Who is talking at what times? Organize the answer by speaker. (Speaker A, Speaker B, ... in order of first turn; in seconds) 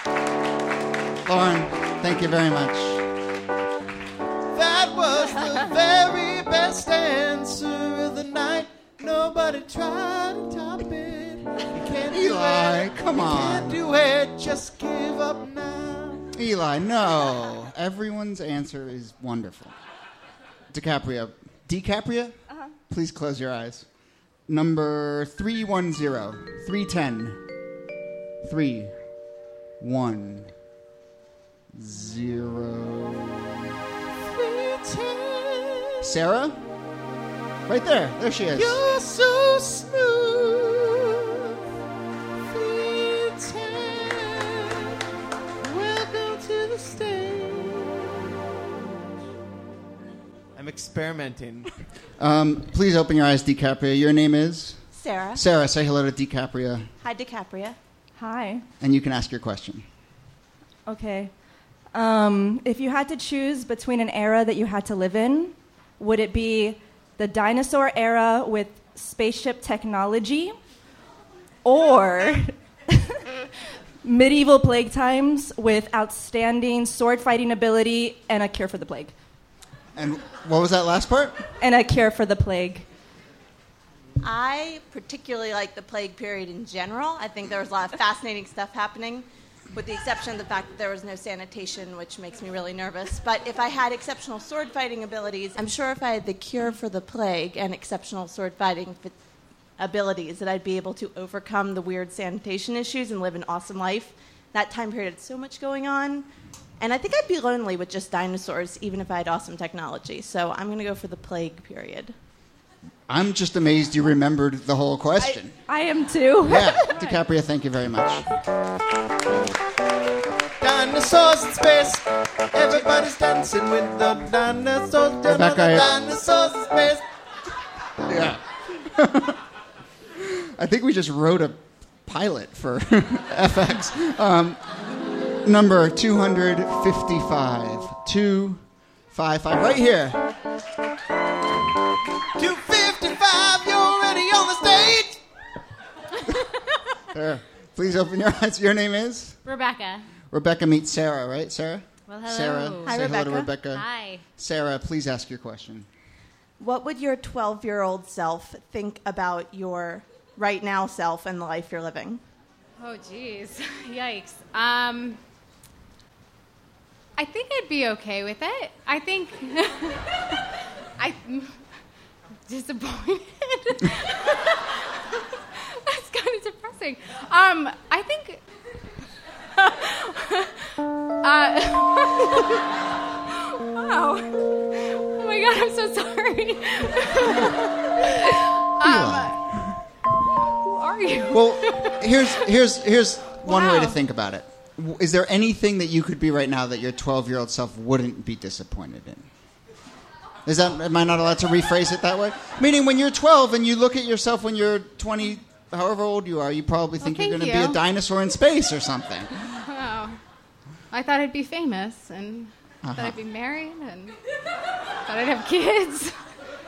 Speaker A: 1.2-3.0, 12.1-13.8, 16.4-19.8, 20.7-22.4, 22.9-23.9, 24.5-27.4, 28.4-29.0, 29.8-30.5, 31.7-33.4, 36.0-36.6, 37.7-38.8, 52.2-54.8, 55.4-56.9, 58.8-59.9, 80.0-81.5, 113.1-115.6, 116.4-118.3, 125.2-125.9, 128.1-129.4, 130.2-134.6, 135.4-140.3, 147.1-149.4, 150.3-153.9, 154.4-155.9, 188.8-189.8, 191.3-199.3, 200.5-209.4, 212.8-213.2
Speaker B: 4.5-16.3, 34.2-36.1, 38.5-41.2, 42.5-44.9, 45.6-48.0, 50.6-51.7, 120.6-127.0, 142.4-145.2
Speaker C: 54.9-55.4, 57.0-57.8, 84.2-99.1, 99.8-106.3, 106.8-112.1, 152.8-153.5, 156.6-162.2
Speaker D: 58.2-58.7, 60.9-61.3, 61.9-70.6, 71.6-73.2, 74.0-79.2, 81.6-82.9, 115.7-116.7
Speaker E: 149.4-150.1, 152.1-154.2, 162.8-165.2, 167.2-170.4, 171.0-171.7, 172.5-178.4, 179.6-182.6, 183.3-189.4, 190.6-192.1, 193.4-194.0, 207.0-207.8, 209.6-210.2, 210.9-214.2, 215.1-216.2